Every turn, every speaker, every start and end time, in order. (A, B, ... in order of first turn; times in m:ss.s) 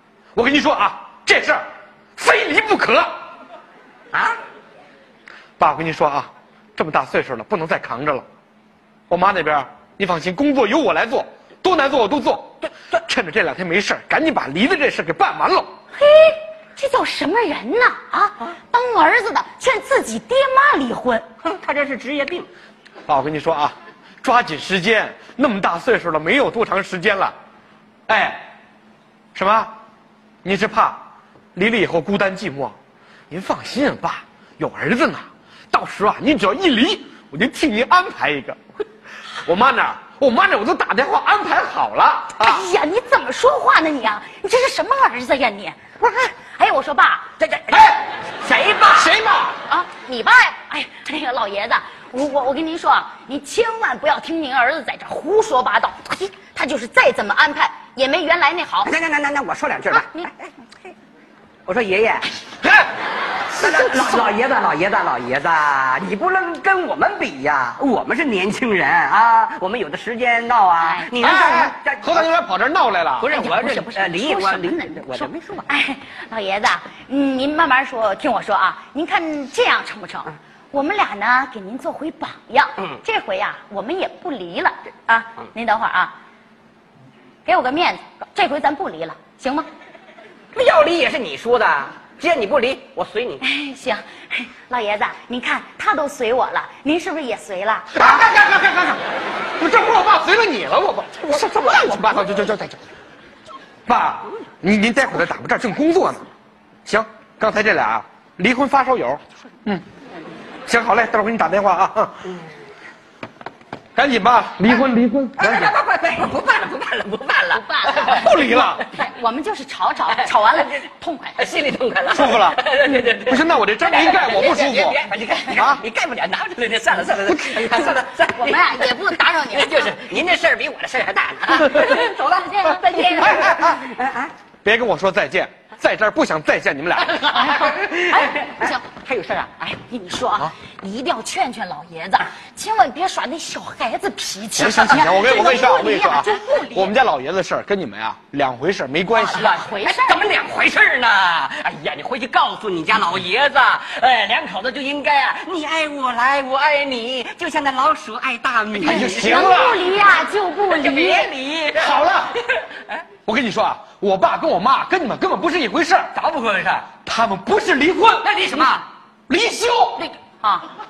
0:00.3-0:01.6 A
0:02.2-0:03.1 A
0:04.1-0:04.4 B
0:05.6-0:08.2 A
0:09.1-0:15.7 A
0:15.9-0:21.2 C
0:21.4-0:22.5 B
0:23.1-0:27.3 A
0:28.1-0:28.5 A
0:29.3-0:29.7 A
0:30.4-0:32.8 A
0:33.3-0:38.6 A
0:39.4-0:42.6 A
0:42.4-0:47.3 C
0:47.4-0:49.1 B
0:48.9-0:49.6 A
0:49.7-0:58.9 C
0:58.8-1:00.9 B
0:59.9-1:00.3 C
1:01.7-1:02.3 B
1:03.5-1:12.2 B
1:10.8-1:11.4 C
1:11.2-1:13.3 A
1:13.2-1:15.7 B
1:13.3-1:26.1 C
1:27.4-1:29.7 C
1:30.5-1:33.4 B
1:33.4-1:37.9 C
1:37.9-1:39.0 A
1:39.6-1:42.8 A
1:41.4-1:42.2 B
1:43.9-1:46.3 A
1:46.8-1:49.8 A
1:50.7-1:52.2 A
1:54.0-1:55.7 A
1:55.4-1:58.9 B
1:57.5-1:58.3 C
1:58.0-1:58.8 A
1:58.9-2:01.4 C
2:00.2-2:00.8 B
2:01.4-2:14.3 B
2:02.1-2:02.6 A
2:03.1-2:05.0 A
2:05.5-2:05.8 A
2:07.3-2:07.8 A
2:08.2-2:10.0 C
2:11.8-2:13.5 C
2:13.2-2:13.7 A
2:14.6-2:17.4 A
2:17.1-2:19.8 B
2:17.3-2:18.8 C
2:19.8-2:26.9 C
2:24.6-2:29.5 A
2:24.9-2:25.6 B
2:29.1-2:39.5 B
2:29.2-2:30.2 C
2:38.8-2:39.8 A
2:38.8-2:41.3 C
2:40.7-2:42.8 B
2:41.7-2:42.3 A
2:43.2-2:46.1 A
2:46.1-2:46.9 B
2:47.0-2:48.8 A
2:48.2-2:48.8 B
2:49.3-2:50.0 A
2:50.0-2:50.7 C